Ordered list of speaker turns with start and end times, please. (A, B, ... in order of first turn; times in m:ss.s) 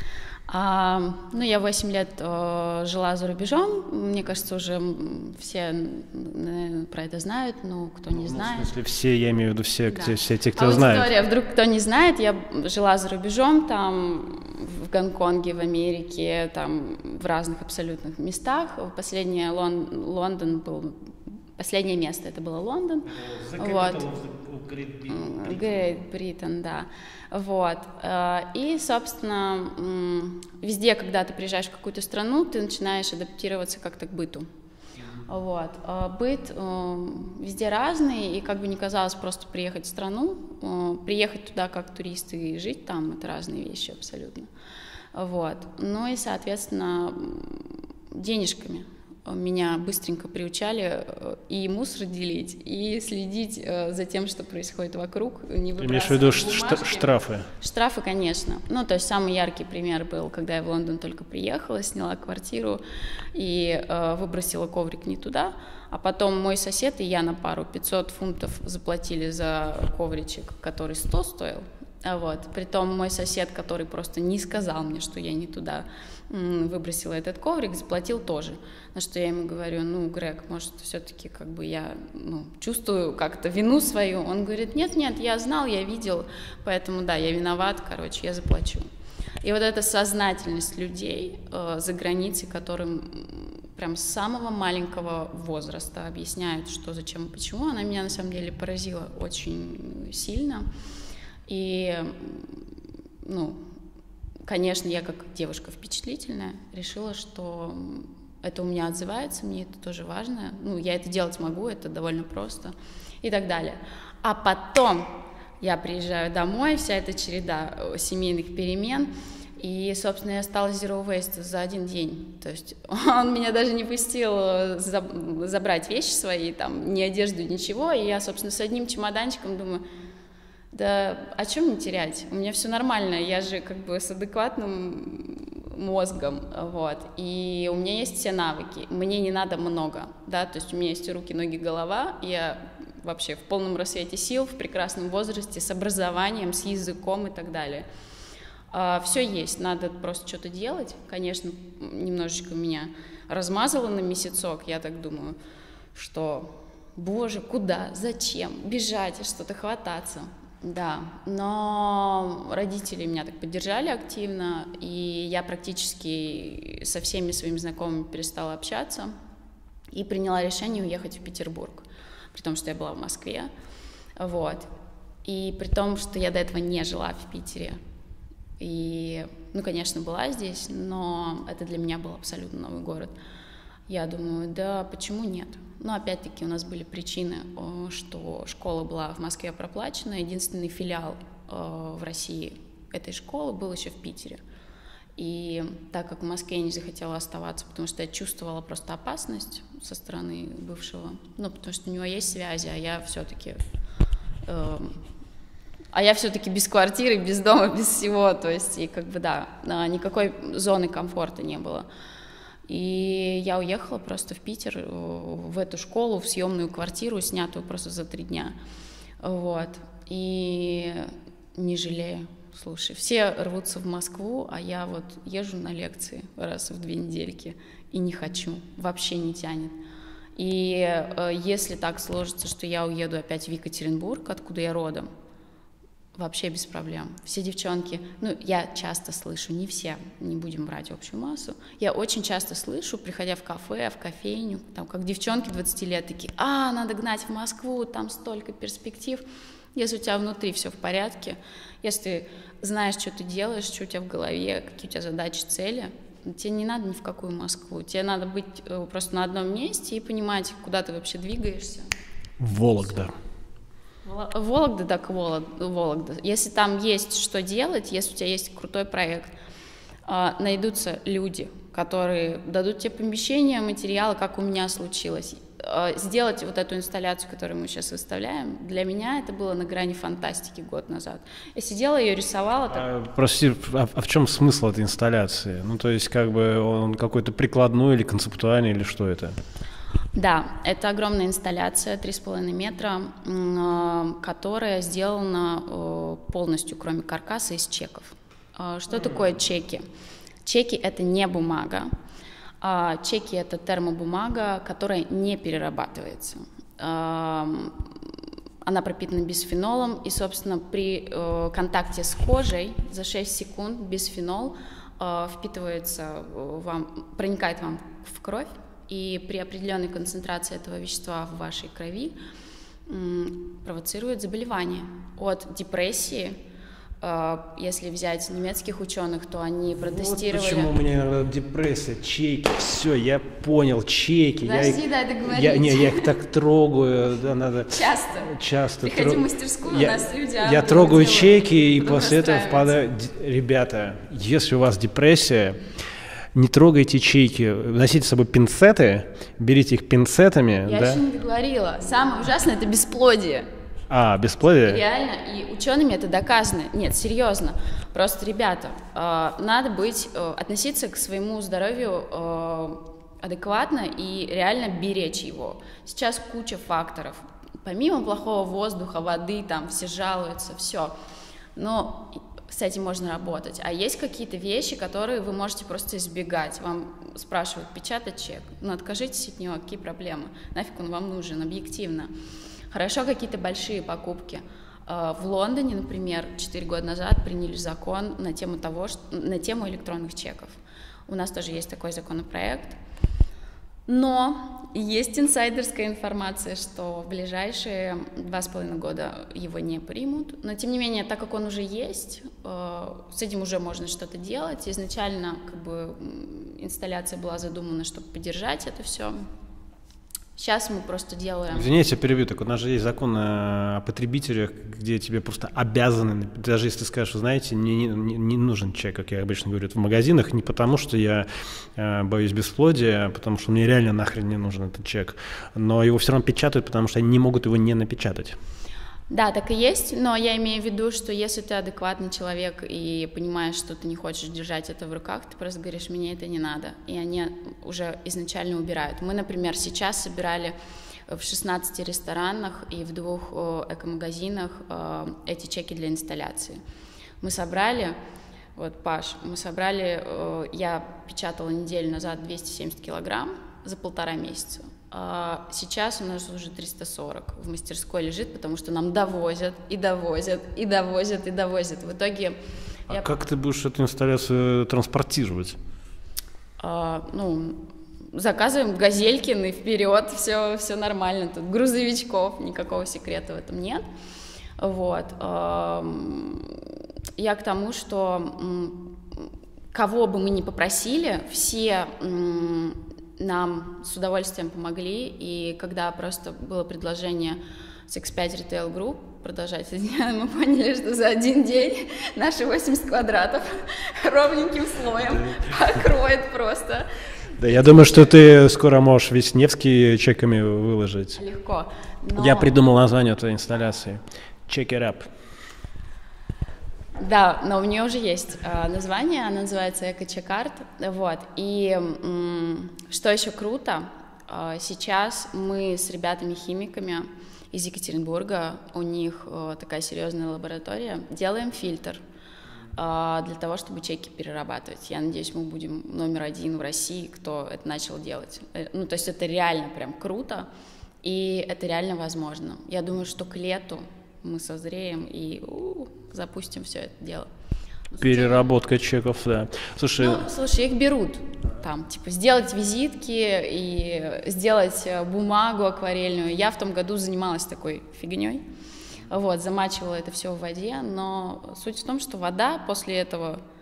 0:00.5-0:08.7 A
0:08.1-0:11.1 B
0:09.9-0:24.0 A
0:23.1-0:25.9 B
0:25.1-0:34.5 A
0:35.3-0:44.5 A
0:45.1-1:02.8 A
0:55.8-0:57.5 B
1:03.3-1:28.8 A
1:29.4-1:40.7 A
1:41.5-1:42.6 A
1:43.2-1:43.6 A
1:44.4-2:09.8 A
2:10.7-2:27.8 A
2:28.7-2:35.4 A
2:35.9-2:49.1 A
2:49.9-2:53.5 A
2:54.2-2:54.7 A
2:55.2-2:57.8 A
2:58.6-3:03.1 A
3:03.9-3:14.4 A
3:15.2-3:23.6 A
3:24.4-3:25.0 A
3:25.9-3:31.9 A
3:32.7-3:38.6 A
3:39.2-3:49.8 A
3:50.4-3:55.1 A
3:56.1-4:09.2 A
4:09.7-4:21.9 A
4:22.4-4:23.1 B
4:24.0-4:29.3 A
4:30.1-4:42.9 A
4:42.7-4:49.3 B
4:50.1-4:59.8 A
5:00.4-5:01.9 A
5:02.6-5:07.9 A
5:08.6-5:22.1 A
5:22.9-5:26.4 A
5:27.0-5:30.7 A
5:29.8-5:45.6 B
5:34.4-5:36.2 A
5:37.7-5:42.8 A
5:46.3-5:51.0 B
5:50.7-5:53.5 A
5:53.9-5:54.8 B
5:54.6-6:10.9 A
6:11.6-6:22.1 A
6:22.7-6:32.8 A
6:33.9-6:49.2 A
6:50.4-6:51.7 A
6:51.5-7:08.4 B
7:09.1-7:20.6 A
7:21.1-7:26.6 A
7:27.2-7:28.0 A
7:28.6-7:42.4 A
7:42.9-7:45.6 B
7:46.6-7:53.8 A
7:54.6-7:56.6 A
7:57.2-8:16.9 A
8:17.4-8:21.2 B
8:21.2-8:22.5 A
8:22.1-8:25.1 B
8:27.0-8:42.0 A
8:42.7-8:50.5 A
8:51.0-8:57.3 A
8:57.9-8:58.5 A
8:58.0-9:00.3 B
9:00.0-9:08.4 A
9:09.1-9:13.4 A